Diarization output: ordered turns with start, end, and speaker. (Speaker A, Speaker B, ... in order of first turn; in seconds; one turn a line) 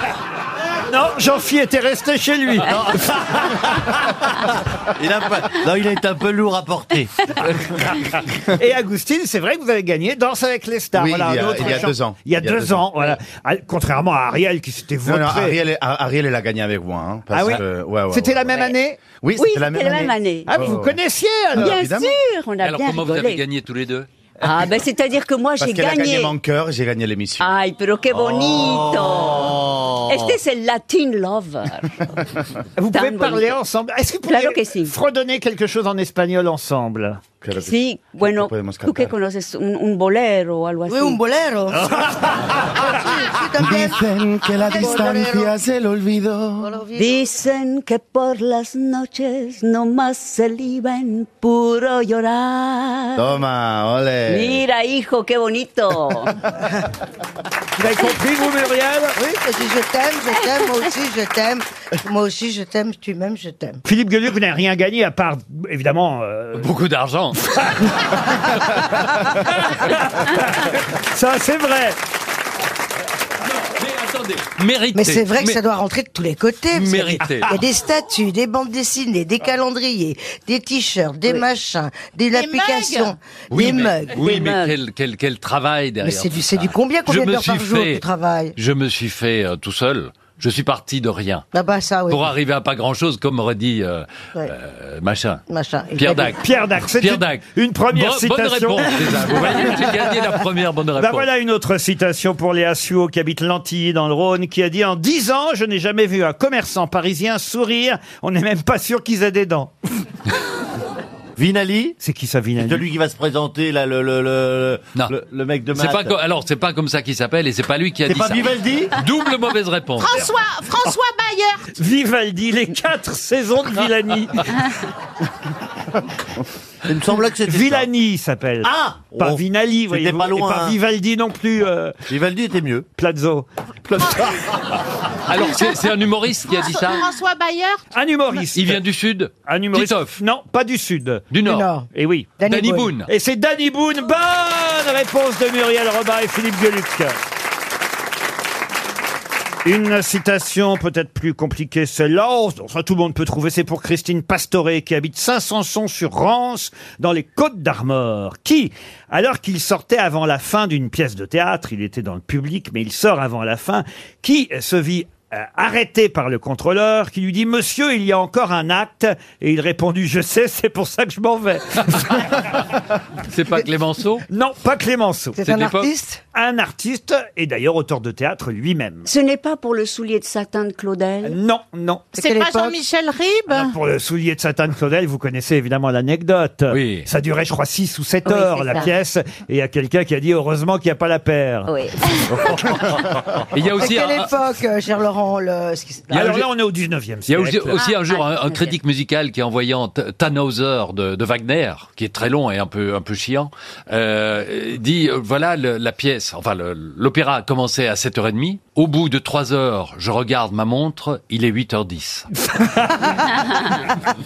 Speaker A: 0.9-3.1
Speaker B: 2.7-3.1
Speaker B: 5.0-7.1
Speaker A: 8.6-15.6
Speaker C: 10.9-13.0
Speaker C: 15.1-21.0
Speaker A: 17.3-19.0
Speaker D: 19.4-20.6
Speaker A: 20.5-21.8
Speaker C: 21.5-22.2
Speaker D: 21.5-23.4
Speaker E: 22.6-24.1
Speaker D: 24.4-26.3
Speaker C: 25.6-27.5
Speaker D: 27.4-31.9
Speaker B: 28.2-30.4
Speaker A: 32.8-37.2
Speaker D: 32.9-33.5
Speaker D: 34.2-34.9
Speaker C: 37.4-39.1
Speaker D: 37.6-41.2
Speaker F: 40.9-41.9
Speaker A: 41.8-42.3
Speaker F: 42.8-45.5
Speaker C: 43.6-46.8
Speaker F: 46.6-47.3
Speaker D: 46.9-53.2
Speaker C: 53.2-54.6
Speaker D: 54.3-56.3
Speaker A: 57.8-59.2
Speaker F: 59.2-63.8
Speaker A: 63.9-66.7
Speaker E: 66.5-67.4
Speaker A: 69.9-72.0
Speaker E: 73.5-75.6
Speaker F: 74.9-84.5
Speaker E: 76.7-77.5
Speaker G: 82.4-82.9
Speaker E: 83.5-91.5
Speaker D: 84.3-84.8
Speaker F: 86.0-88.5
Speaker F: 91.5-92.3
Speaker E: 92.1-95.4
Speaker F: 95.5-96.3
Speaker E: 96.0-101.3
Speaker A: 96.4-99.6
Speaker A: 101.0-109.7
Speaker B: 111.4-112.0
Speaker A: 112.0-112.8
Speaker B: 112.6-116.2
Speaker E: 115.7-120.1
Speaker B: 118.0-118.9
Speaker G: 120.0-121.7
Speaker A: 121.7-124.6
Speaker B: 126.9-127.9
Speaker A: 127.5-131.9
Speaker B: 128.6-130.8
Speaker B: 132.1-132.9
Speaker A: 133.0-133.5
Speaker E: 135.3-137.1
Speaker G: 136.5-137.8
Speaker A: 137.9-138.8
Speaker E: 138.5-140.2
Speaker A: 139.5-141.3
Speaker E: 141.3-141.7
Speaker F: 141.4-142.9
Speaker A: 141.9-142.4
Speaker E: 142.4-143.1
Speaker A: 143.1-147.2
Speaker A: 149.7-172.2
Speaker E: 173.3-174.2
Speaker A: 174.3-175.5
Speaker F: 175.4-176.2
Speaker E: 175.4-175.9
Speaker A: 176.3-179.1
Speaker D: 179.1-181.4
Speaker A: 181.2-182.1
Speaker F: 182.2-182.8
Speaker G: 182.2-183.7
Speaker A: 183.5-191.7
Speaker E: 186.7-187.1
Speaker D: 188.3-188.9
Speaker D: 191.7-192.0
Speaker E: 193.5-194.3
Speaker F: 193.6-196.4
Speaker A: 196.1-197.8
Speaker E: 196.1-196.4
Speaker E: 197.3-212.3
Speaker G: 197.8-198.1
Speaker D: 198.1-198.7
Speaker A: 212.5-213.8